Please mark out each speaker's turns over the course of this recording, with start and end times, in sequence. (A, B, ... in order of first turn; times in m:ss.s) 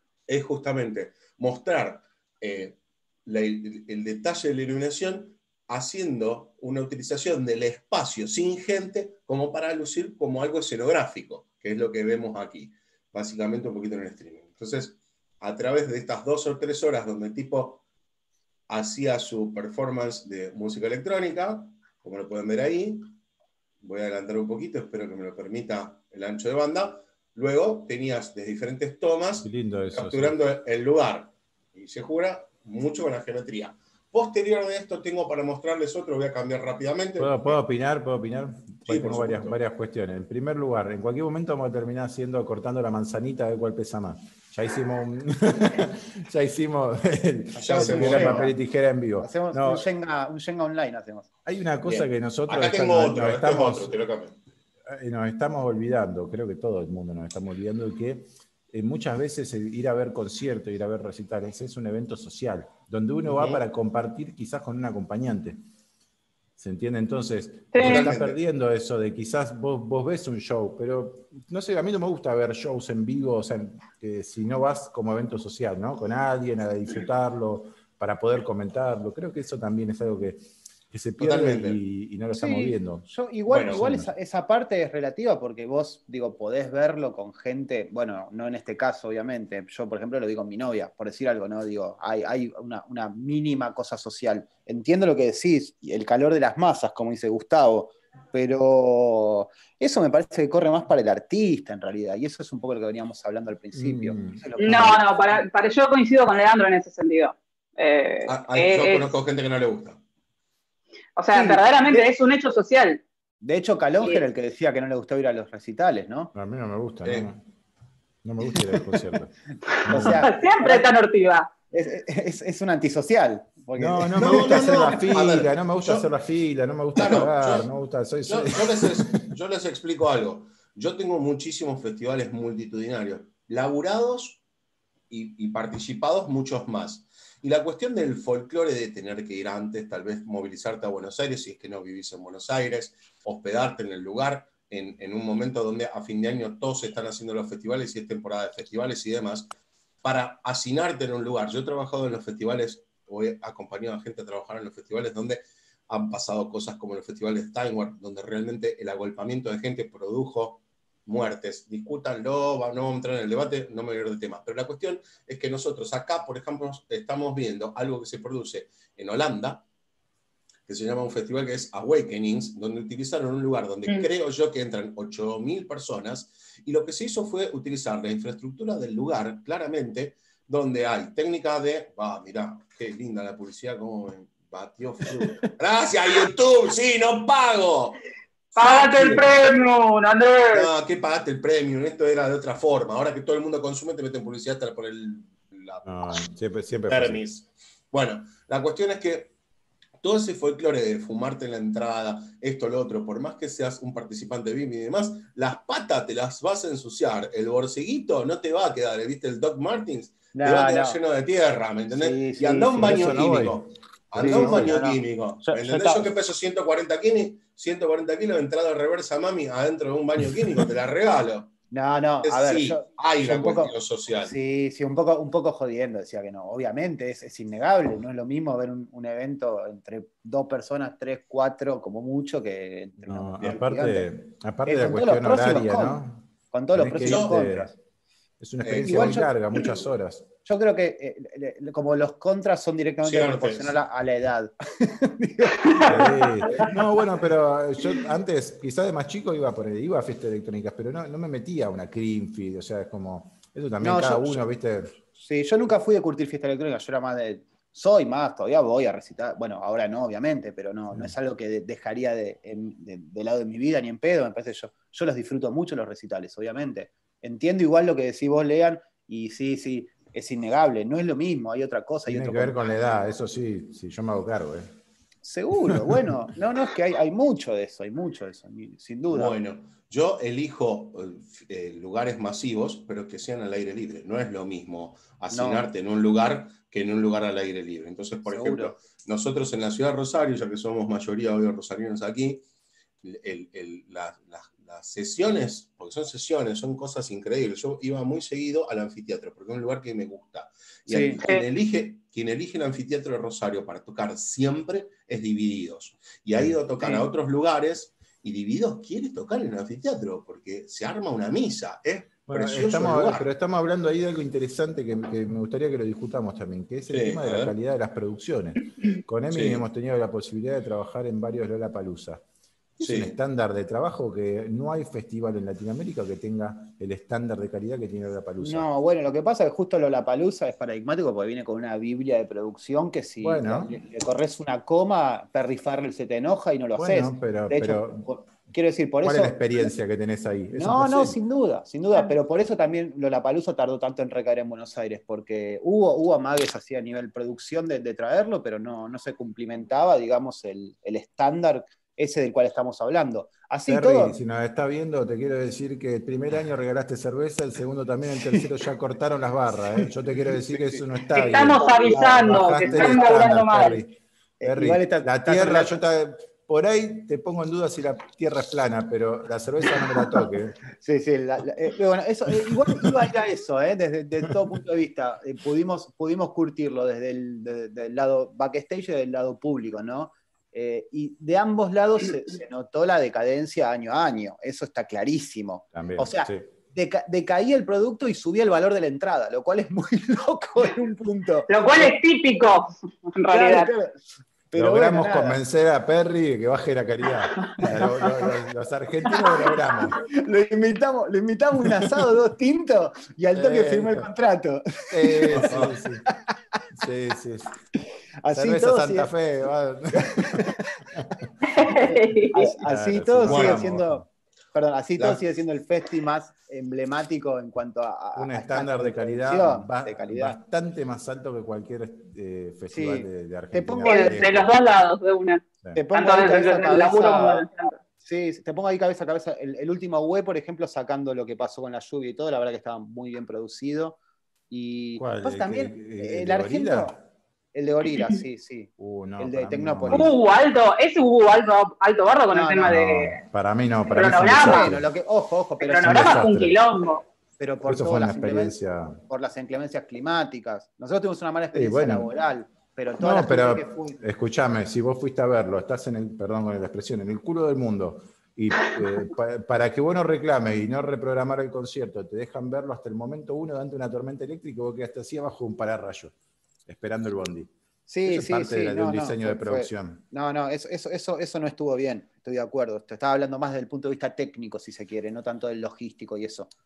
0:00.3-0:17.8 A
0:18.7-0:23.1 A
0:23.8-0:37.6 A
0:29.4-0:30.4 B
0:37.2-0:49.9 B
0:38.9-0:39.6 A
0:47.6-0:48.6 C
0:47.6-0:48.5 A
0:49.2-0:51.3 C
0:51.5-0:54.0 B
0:51.8-0:54.4 A
0:54.9-1:05.6 B
1:03.3-1:03.6 A
1:06.6-1:23.0 B
1:07.7-1:08.1 D
1:07.8-1:08.4 A
1:21.2-1:21.8 A
1:22.3-1:45.0 C
1:23.5-1:23.8 A
1:23.7-1:24.1 B
1:43.7-1:44.4 B
1:44.6-1:49.1 D
1:48.3-1:50.0 A
1:51.2-1:53.0 D
1:51.3-1:52.1 C
1:53.4-1:56.3 C
1:56.3-1:57.4 B
1:57.0-1:57.3 A
1:58.2-1:59.3 B
1:59.8-2:00.9 C
1:59.9-2:00.2 B
2:00.0-2:01.5 D
2:01.7-2:05.0 C
2:03.8-2:09.3 B
2:04.2-2:06.1 A
2:07.0-2:07.7 A
2:08.3-2:14.4 A
2:15.1-2:29.5 A
2:30.0-2:49.6 A
2:50.7-3:08.0 A
3:08.5-3:09.4 A
3:08.6-3:10.7 D
3:10.5-3:16.2 A
3:15.8-3:17.2 B
3:16.9-3:19.3 A
3:20.0-3:41.5 A
3:30.3-3:31.0 C
3:31.9-3:33.2 C
3:32.8-3:34.7 B
3:34.2-3:36.1 C
3:41.7-3:54.1 C
3:42.2-3:44.4 A
3:53.1-3:57.7 B
3:54.7-3:56.0 C
3:56.5-3:57.7 C
3:56.9-3:57.4 A
3:58.4-4:00.3 B
3:58.6-3:59.3 A
3:58.9-3:59.8 C
4:00.4-4:06.8 C
4:03.0-4:03.8 A
4:05.8-4:15.0 B
4:13.8-4:14.4 C
4:15.2-4:33.0 C
4:32.1-4:34.7 B
4:35.2-4:39.4 C
4:39.1-4:52.4 A
4:45.3-4:45.6 C
4:48.3-4:48.7 C
4:53.0-5:13.3 A
5:00.9-5:01.2 C
5:06.8-5:07.1 C
5:12.3-5:22.2 B
5:16.9-5:17.5 A
5:19.3-5:19.6 A
5:22.8-5:28.7 B
5:22.8-5:23.2 A
5:28.4-5:39.7 C
5:33.2-5:33.8 B
5:36.8-5:38.1 B
5:39.0-5:41.2 B
5:40.5-5:54.2 C
5:53.6-6:10.6 B
6:01.1-6:03.8 D
6:02.6-6:03.2 C
6:04.4-6:05.8 C
6:10.8-6:32.0 C
6:25.7-6:26.5 B
6:31.5-6:33.7 D
6:33.3-6:35.4 C
6:34.6-6:40.0 B
6:37.6-6:38.3 C
6:39.1-6:45.7 C
6:43.3-6:44.1 B
6:44.9-6:46.1 B
6:45.3-6:45.8 A
6:46.8-6:47.6 B
6:48.2-6:49.1 C
6:48.3-6:51.1 B
6:50.0-6:50.8 C
6:51.4-6:52.6 D
6:51.8-7:00.4 C
6:52.6-6:54.1 B
6:53.2-6:53.6 A
6:58.2-7:04.5 B
7:02.7-7:04.3 C
7:03.8-7:05.4 D
7:05.7-7:07.5 C
7:05.9-7:07.8 D
7:08.0-7:14.0 C
7:14.5-7:17.0 C
7:15.0-7:17.0 B
7:17.5-7:20.1 C
7:18.8-7:20.1 B
7:19.9-7:23.2 D
7:22.3-7:22.8 C
7:22.7-7:24.9 B
7:23.9-7:24.7 D
7:24.2-7:26.2 C
7:25.6-7:27.0 D
7:25.8-7:26.6 B
7:27.4-7:28.6 C
7:27.6-7:29.0 B
7:29.1-7:34.0 C
7:31.5-7:32.1 B
7:33.0-7:46.1 B
7:46.7-7:47.5 B
7:47.9-7:56.5 C
7:48.0-7:50.0 B